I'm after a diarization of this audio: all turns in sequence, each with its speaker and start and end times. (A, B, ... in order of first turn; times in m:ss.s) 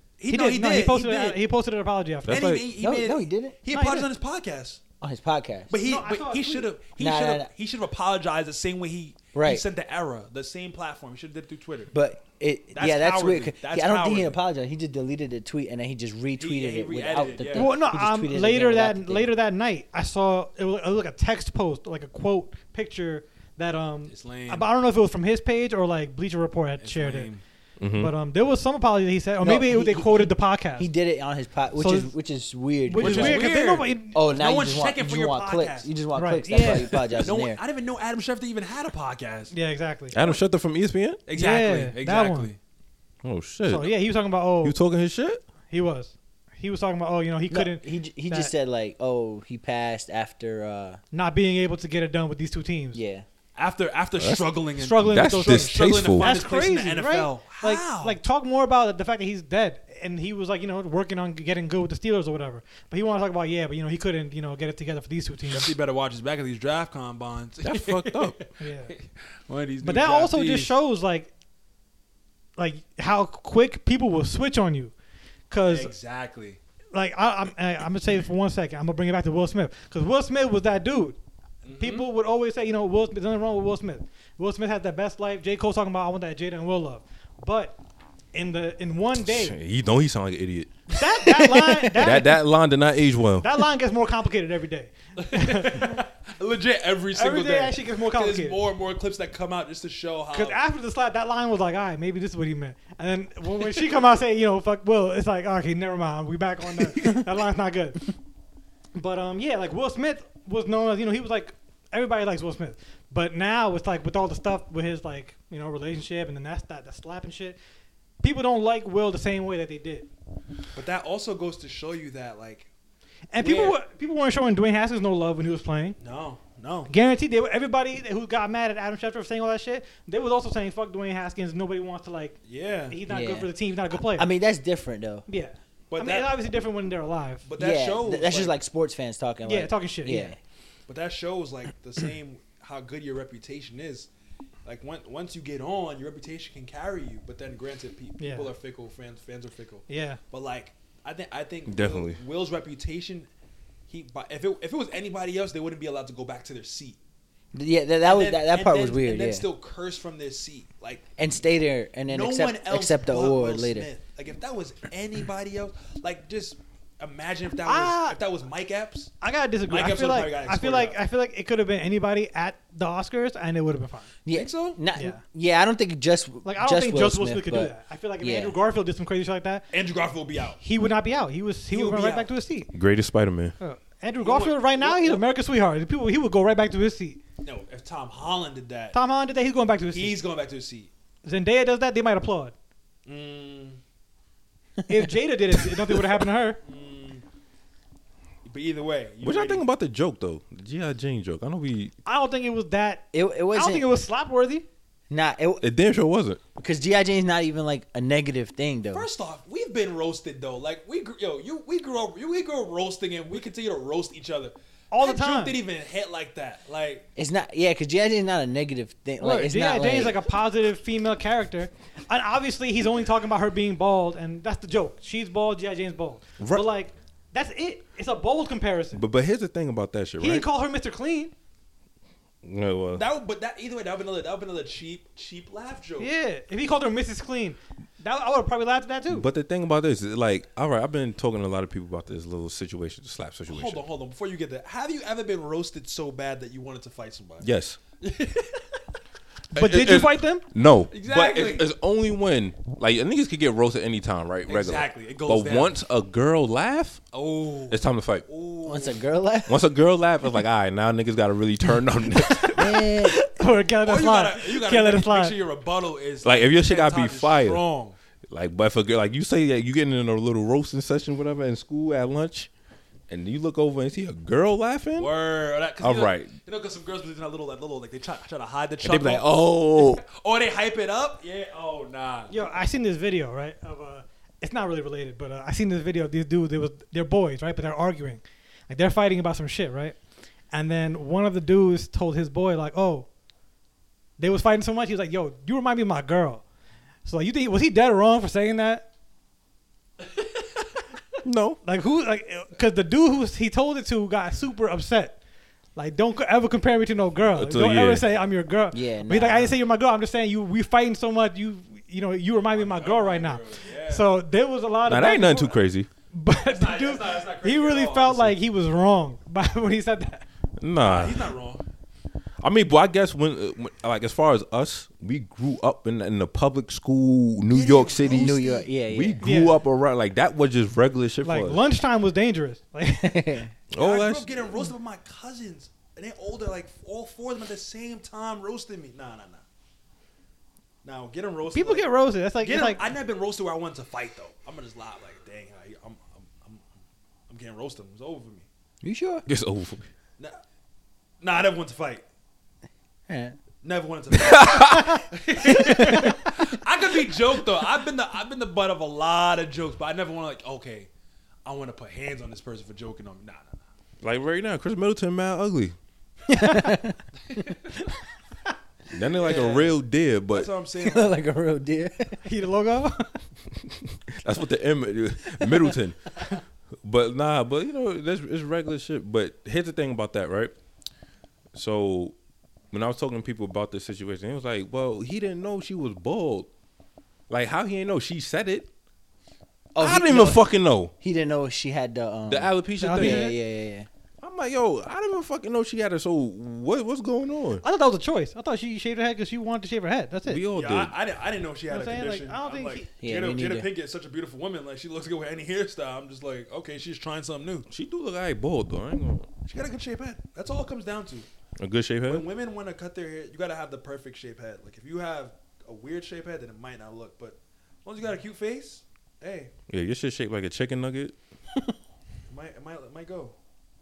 0:00.2-0:01.4 A
0:00.3-0:02.5 B
0:02.3-0:02.7 C
0:02.3-0:04.8 A
0:02.8-0:03.6 D
0:03.7-0:04.1 B
0:05.0-0:05.7 D
0:05.7-0:11.9 A
0:05.8-0:06.7 B
0:07.0-0:07.5 D
0:09.3-0:09.6 D
0:11.9-0:19.3 D
0:12.7-0:14.4 A
0:16.4-0:17.7 A
0:17.6-0:27.3 B
0:24.1-0:24.7 A
0:26.8-0:27.4 A
0:27.8-0:28.1 C
0:28.0-0:30.9 B
0:29.4-0:33.5 D
0:31.8-0:32.1 B
0:32.9-0:34.2 B
0:33.0-0:35.9 A
0:34.1-0:37.6 D
0:36.1-0:37.1 B
0:36.6-0:39.5 A
0:39.5-0:40.3 B
0:40.1-0:41.2 C
0:41.3-0:42.6 A
0:41.4-0:42.5 B
0:43.2-0:44.0 C
0:43.6-0:44.8 B
0:44.6-0:45.4 C
0:45.7-0:48.5 B
0:47.5-0:51.0 D
0:51.1-0:53.0 B
0:52.9-0:53.3 D
0:53.6-0:58.2 A
0:54.2-0:56.3 C
0:54.8-1:05.7 B
1:05.5-1:10.7 A
1:07.6-1:08.4 C
1:08.6-1:08.9 B
1:09.8-1:11.3 B
1:12.6-1:14.9 B
1:15.5-1:15.9 B
1:15.7-1:16.6 A
1:16.9-1:21.2 B
1:21.6-1:22.1 A
1:21.8-1:27.8 B
1:28.3-1:29.6 B
1:29.2-1:30.7 C
1:30.9-1:32.4 B
1:31.2-1:32.2 D
1:32.0-1:33.5 C
1:33.4-1:36.0 B
1:35.2-1:40.6 A
1:37.1-1:38.6 B
1:40.3-1:48.1 B
1:49.0-1:57.6 B
1:58.2-2:00.1 B
2:00.7-2:02.7 A
2:03.3-2:06.0 B
2:03.4-2:03.8 A
2:06.0-2:06.9 A
2:06.9-2:12.4 B
2:12.4-2:13.0 A
2:12.9-2:14.3 B
2:13.1-2:15.2 D
2:15.3-2:17.4 B
2:15.9-2:16.4 A
2:17.4-2:18.6 A
2:17.6-2:20.4 D
2:19.4-2:20.3 B
2:20.9-2:24.1 A
2:24.6-2:33.3 A
2:28.2-2:28.5 B
2:29.9-2:30.2 B
2:31.7-2:32.2 C
2:33.9-2:37.0 A
2:37.5-2:39.5 D
2:38.0-2:41.1 A
2:41.2-2:43.9 D
2:42.1-2:49.1 A
2:47.6-2:48.2 B
2:49.2-2:54.1 B
2:49.7-2:51.0 A
2:54.2-2:58.6 D
2:54.3-2:54.8 A
2:55.0-2:55.2 B
2:56.4-2:59.7 B
2:59.7-3:00.6 A
3:00.6-3:02.7 B
3:01.7-3:02.3 A
3:02.7-3:03.6 C
3:03.6-3:07.2 B
3:04.2-3:05.2 A
3:07.4-3:09.0 A
3:08.9-3:10.2 B
3:09.9-3:10.9 A
3:11.2-3:12.5 B
3:13.1-3:13.8 A
3:14.8-3:15.1 D
3:14.9-3:16.6 B
3:16.6-3:17.2 A
3:18.4-3:19.6 A
3:19.2-3:21.9 C
3:22.0-3:24.7 B
3:23.1-3:23.9 D
3:25.1-3:25.6 D
3:25.6-3:26.4 C
3:26.6-3:29.1 D
3:28.9-3:37.0 A
3:34.9-3:35.6 B
3:37.2-3:40.2 D
3:39.2-3:49.0 B
3:46.4-3:46.6 C
3:48.9-3:50.5 C
3:50.2-3:51.3 B
3:52.4-3:53.0 C
3:53.0-3:56.1 A
3:56.0-3:59.3 B
3:59.1-4:03.8 C
4:03.5-4:07.5 A
4:07.4-4:07.8 C
4:08.0-4:08.8 A
4:09.5-4:10.4 B
4:09.6-4:17.0 C
4:10.9-4:11.7 A
4:14.5-4:15.8 A
4:17.1-4:19.0 A
4:17.7-4:18.2 C
4:18.6-4:19.6 D
4:19.5-4:22.8 C
4:22.6-4:23.2 D
4:22.8-4:25.4 B
4:23.8-4:28.0 A
4:26.2-4:27.6 C
4:28.3-4:32.5 C
4:33.1-4:35.1 C
4:35.0-4:42.3 A
4:35.8-4:36.3 C
4:38.8-4:40.0 C
4:42.3-4:50.0 B
4:50.5-4:53.1 B
4:54.2-4:56.4 B
4:57.0-4:58.9 B
5:01.2-5:01.6 C
5:01.6-5:05.2 B
5:05.7-5:20.2 B
5:07.3-5:08.0 C
5:08.7-5:09.6 D
5:12.5-5:14.1 A
5:14.9-5:15.9 C
5:16.4-5:18.4 A
5:20.6-5:21.3 C
5:20.8-5:21.6 A
5:22.4-5:31.6 C
5:27.5-5:28.7 A
5:28.0-5:29.3 D
5:29.2-5:29.6 B
5:31.2-5:33.4 B
5:32.9-5:33.5 D
5:33.7-5:34.3 C
5:33.8-5:39.4 A
5:40.8-5:41.9 A
5:41.5-5:42.8 B
5:42.4-5:46.7 A
5:47.3-5:48.5 A
5:48.8-5:49.2 D
5:49.3-5:49.9 C
5:51.2-5:52.0 A
5:53.1-5:53.4 D
5:53.6-6:00.9 A
5:54.1-5:55.0 C
5:55.4-5:56.2 D
6:01.4-6:03.7 A
6:04.0-6:05.8 C
6:06.3-6:07.4 D
6:06.4-6:06.7 B
6:07.3-6:07.6 A
6:08.9-6:10.5 C
6:09.2-6:09.8 A
6:10.3-6:11.2 A
6:10.8-6:12.2 D
6:12.2-6:13.1 B
6:13.6-6:20.6 C
6:15.4-6:15.8 D
6:21.5-6:22.2 C
6:22.7-6:26.5 C
6:27.3-6:28.7 C
6:29.7-6:30.4 D
6:29.8-6:30.9 C
6:31.0-6:33.9 D
6:32.3-6:33.3 C
6:32.8-6:33.4 B
6:34.2-6:37.6 C
6:37.6-6:40.4 B
6:40.3-6:41.0 C
6:40.5-6:47.7 A
6:41.7-6:42.9 B
6:43.0-6:43.7 D
6:47.7-6:49.3 C
6:49.4-6:51.3 A
6:51.6-6:52.2 C
6:52.1-6:59.5 A
6:59.7-7:01.2 C
7:02.3-7:03.4 A